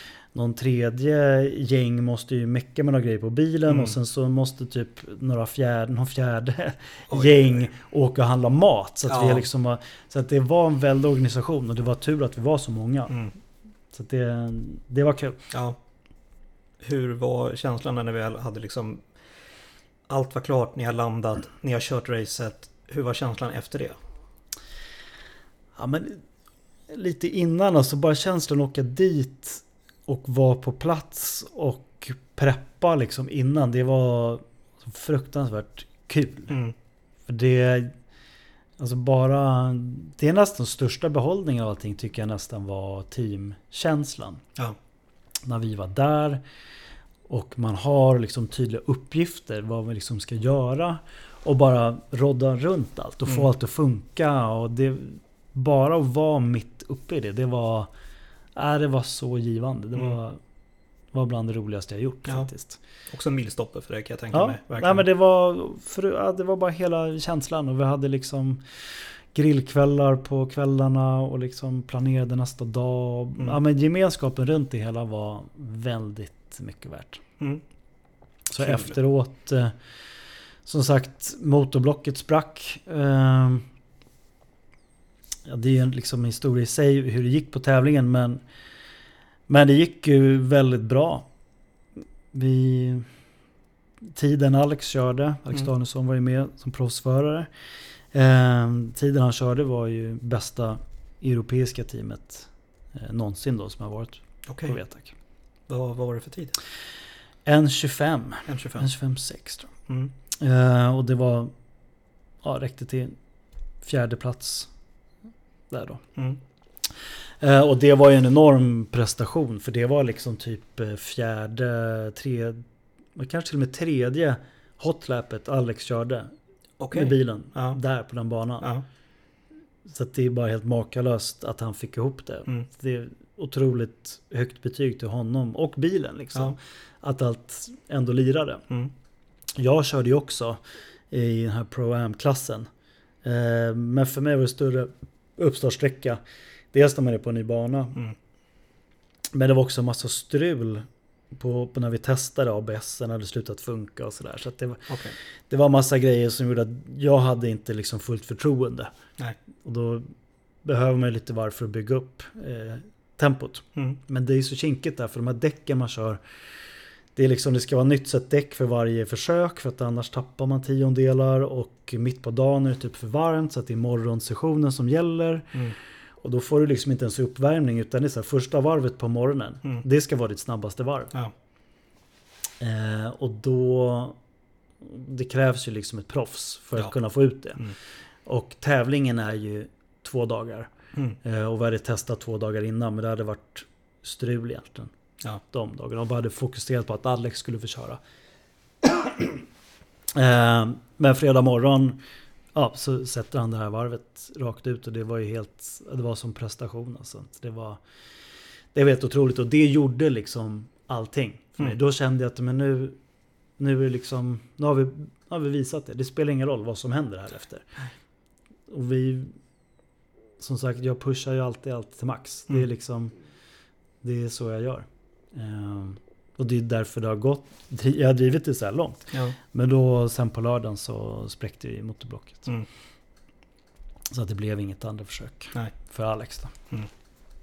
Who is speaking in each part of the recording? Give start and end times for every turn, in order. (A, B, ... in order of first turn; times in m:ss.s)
0:00.3-0:13.3 A
0:03.7-0:03.9 B
0:07.1-0:07.6 B
0:09.1-0:09.5 B
0:13.9-0:15.4 A
0:15.5-0:15.8 B
0:16.8-0:19.1 B
0:20.1-0:24.0 B
0:25.8-0:26.2 A
0:26.9-0:36.6 A
0:37.3-0:37.9 A
0:38.8-0:44.4 A
0:45.4-0:46.4 A
0:47.3-0:57.9 A
0:58.6-1:00.4 A
1:01.1-1:02.8 A
1:03.1-1:05.0 B
1:04.3-1:08.6 A
1:09.3-1:17.2 A
1:18.5-1:19.7 A
1:18.6-1:18.9 B
1:20.7-1:23.7 A
1:25.5-1:28.4 A
1:29.5-1:31.3 A
1:32.3-1:33.1 A
1:34.2-1:37.5 A
1:38.1-1:45.2 A
1:44.5-1:44.8 B
1:45.7-1:46.6 B
1:47.5-1:49.7 A
1:48.5-1:48.9 B
1:50.3-1:51.5 A
1:52.4-1:53.2 A
1:53.8-1:54.7 A
1:55.7-1:56.0 A
1:57.4-2:02.6 A
2:03.2-2:06.3 A
2:06.8-2:07.8 B
2:06.9-2:08.7 A
2:09.9-2:18.7 A
2:19.6-2:22.7 A
2:23.2-2:26.2 A
2:26.7-2:28.0 A
2:29.3-2:35.0 A
2:34.9-2:35.2 B
2:35.5-2:38.9 A
2:39.6-2:40.1 A
2:40.6-2:46.2 A
2:47.2-2:55.6 A
2:56.2-3:01.1 A
3:02.6-3:04.2 A
3:04.8-3:18.0 A
3:18.8-3:19.4 A
3:20.2-3:22.0 A
3:22.6-3:27.8 A
3:28.7-3:33.0 A
3:33.6-3:37.8 A
3:38.7-3:39.3 A
3:40.4-3:43.2 A
3:44.0-3:52.5 A
3:54.1-3:56.6 A